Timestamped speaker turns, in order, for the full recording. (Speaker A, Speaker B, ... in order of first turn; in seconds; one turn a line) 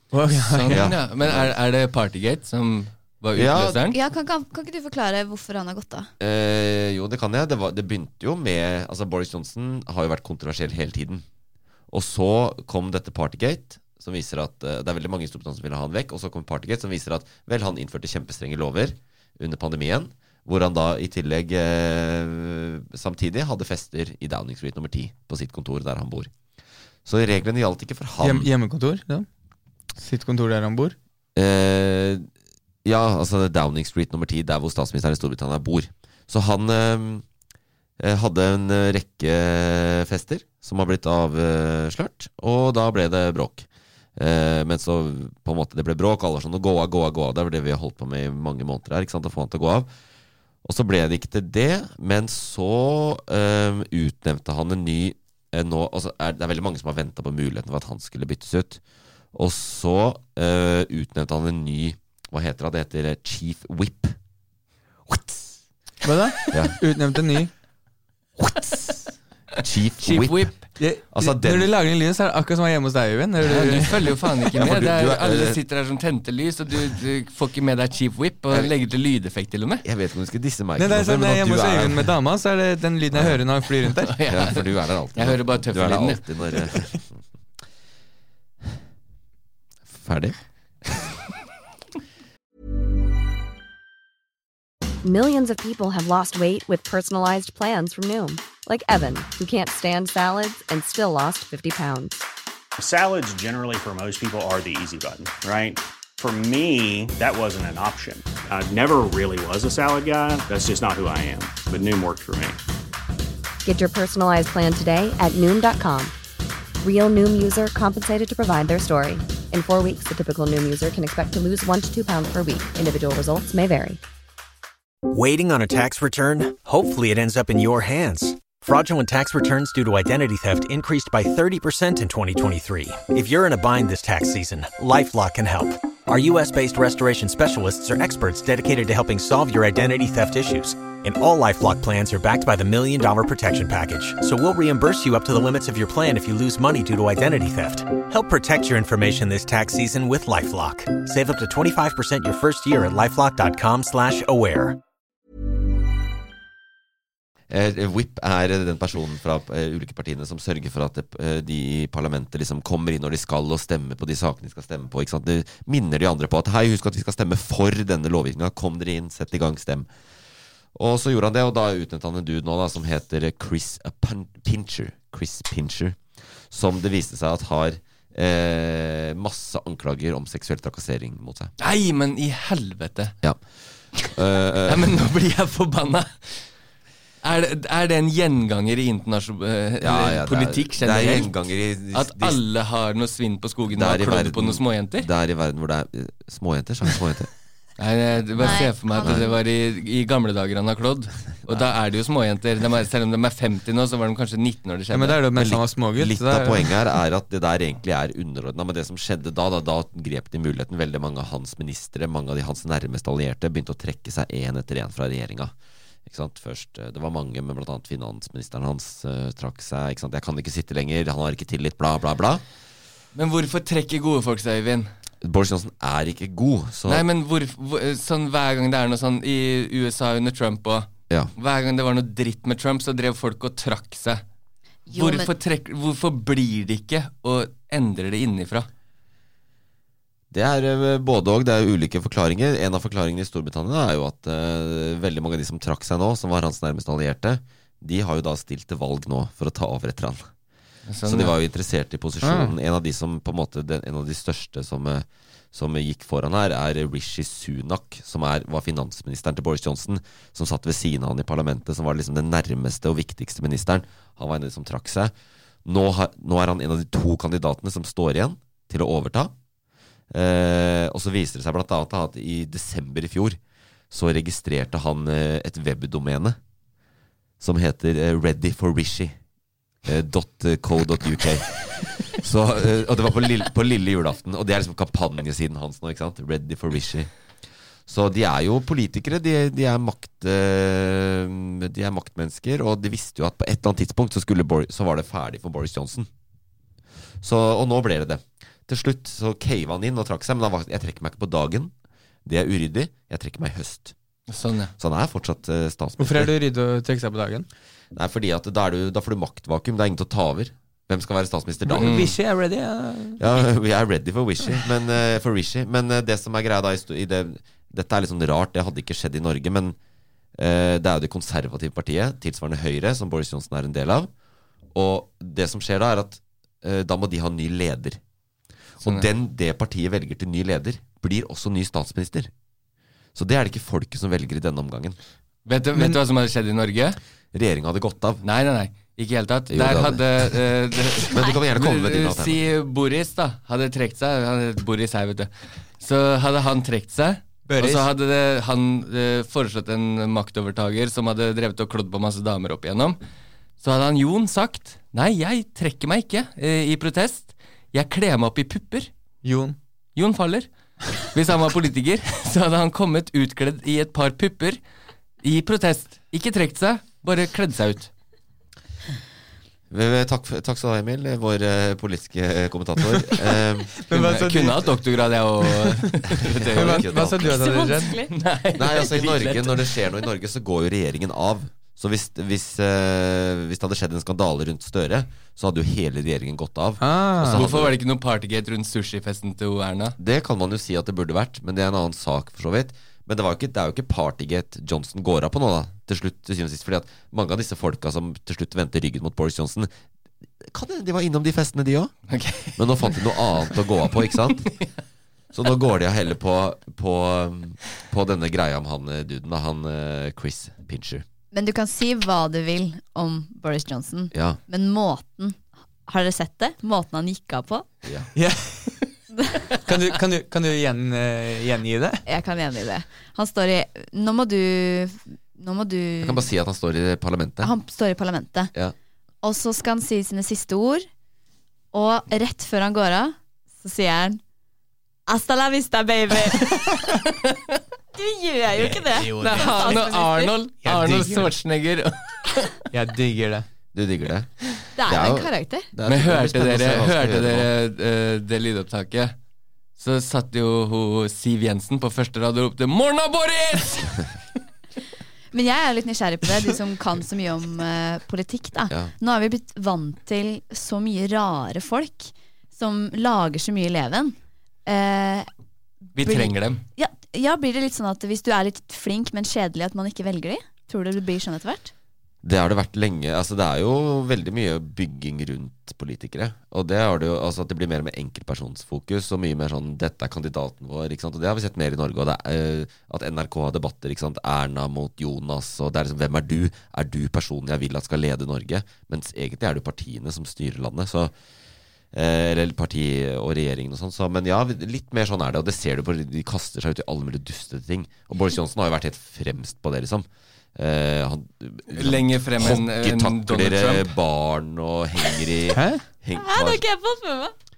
Speaker A: 0.1-0.9
Speaker B: 0.4-4.0
Speaker C: 0.7-1.5
Speaker C: 3.4-3.8
Speaker D: 3.9-6.1
Speaker C: 6.2-11.2
Speaker C: 11.9-26.3
Speaker C: 27.1-28.5
Speaker A: 28.2-29.3
Speaker A: 30.0-31.0
Speaker C: 31.4-32.3
Speaker C: 32.8-37.2
Speaker C: 38.0-49.9
Speaker C: 50.6-58.8
Speaker C: 59.3-64.2
Speaker C: 65.1-65.4
Speaker A: 66.0-67.5
Speaker C: 66.5-66.8
Speaker C: 68.5-68.7
Speaker C: 69.6-70.5
Speaker B: 70.0-70.6
Speaker A: 70.8-74.1
Speaker C: 71.1-71.7
Speaker B: 73.4-79.9
Speaker C: 74.5-75.6
Speaker C: 79.8-82.1
Speaker A: 80.8-84.1
Speaker C: 83.1-83.4
Speaker B: 84.0-86.7
Speaker C: 84.3-87.2
Speaker C: 89.9-91.1
Speaker E: 95.0-102.2
Speaker F: 102.8-112.6
Speaker E: 113.6-116.1
Speaker E: 116.8-124.0
Speaker G: 125.1-154.8
Speaker C: 157.5-169.9
Speaker C: 170.8-181.5
Speaker B: 181.6-183.2
Speaker C: 183.9-184.9
Speaker B: 184.7-186.5
Speaker B: 187.2-191.3
Speaker C: 189.8-192.4
Speaker B: 191.9-195.1
Speaker C: 193.7-197.3
Speaker B: 197.8-205.2
Speaker C: 198.4-199.3
Speaker D: 198.4-199.4
Speaker A: 204.9-206.7
Speaker C: 205.3-215.5
Speaker C: 216.1-222.4
Speaker B: 223.1-224.9
Speaker C: 225.2-227.1
Speaker B: 226.9-234.2
Speaker D: 234.9-235.3
Speaker B: 234.9-238.7
Speaker C: 240.3-250.3
Speaker B: 250.9-251.3
Speaker C: 251.1-265.1
Speaker A: 252.2-252.5
Speaker C: 265.6-269.3
Speaker C: 270.1-273.4
Speaker C: 273.9-276.4
Speaker C: 277.4-279.2
Speaker C: 279.8-287.1
Speaker C: 287.9-296.1
Speaker C: 297.2-301.7
Speaker C: 302.2-303.9
Speaker B: 304.3-304.7
Speaker C: 304.8-306.3
Speaker A: 306.0-307.5
Speaker C: 307.9-312.1
Speaker A: 311.7-313.2
Speaker B: 311.8-312.1
Speaker C: 313.2-319.8
Speaker C: 320.4-324.1
Speaker C: 324.7-328.0
Speaker C: 328.8-332.3
Speaker C: 333.1-335.0
Speaker B: 335.5-337.0
Speaker C: 337.3-338.2
Speaker B: 338.2-353.0
Speaker C: 339.5-342.5
Speaker A: 347.5-347.9
Speaker B: 353.6-358.9
Speaker A: 359.2-359.6
Speaker B: 360.0-364.6
Speaker B: 365.2-367.9
Speaker C: 369.7-373.7
Speaker A: 373.8-374.7
Speaker B: 373.9-376.9
Speaker C: 376.2-377.4
Speaker A: 376.5-378.0
Speaker D: 377.1-378.1
Speaker B: 378.1-379.8
Speaker C: 378.6-387.8
Speaker A: 386.8-387.4
Speaker B: 387.3-389.9
Speaker C: 390.0-399.7
Speaker C: 400.4-401.9
Speaker B: 402.1-403.3
Speaker C: 402.6-404.5
Speaker C: 405.3-411.1
Speaker D: 411.3-417.7
Speaker C: 414.1-414.4
Speaker C: 417.8-418.1
Speaker A: 418.1-418.8
Speaker A: 419.6-422.0
Speaker D: 422.1-426.2
Speaker C: 426.0-427.5
Speaker D: 427.4-428.5
Speaker D: 429.2-430.9
Speaker D: 431.7-434.2
Speaker D: 435.1-436.9
Speaker B: 436.9-437.6
Speaker D: 437.9-440.3
Speaker B: 439.2-442.5
Speaker A: 439.2-439.7
Speaker A: 440.6-441.3
Speaker A: 442.7-443.5
Speaker C: 443.7-444.3
Speaker D: 444.8-445.7
Speaker C: 444.9-447.5
Speaker B: 445.9-449.1
Speaker B: 449.8-454.2
Speaker D: 455.3-464.1
Speaker D: 464.7-465.3
Speaker B: 465.9-466.6
Speaker D: 466.0-471.7
Speaker C: 472.2-491.1
Speaker C: 491.9-506.6
Speaker B: 501.7-503.9
Speaker A: 505.5-505.8
Speaker D: 506.1-507.3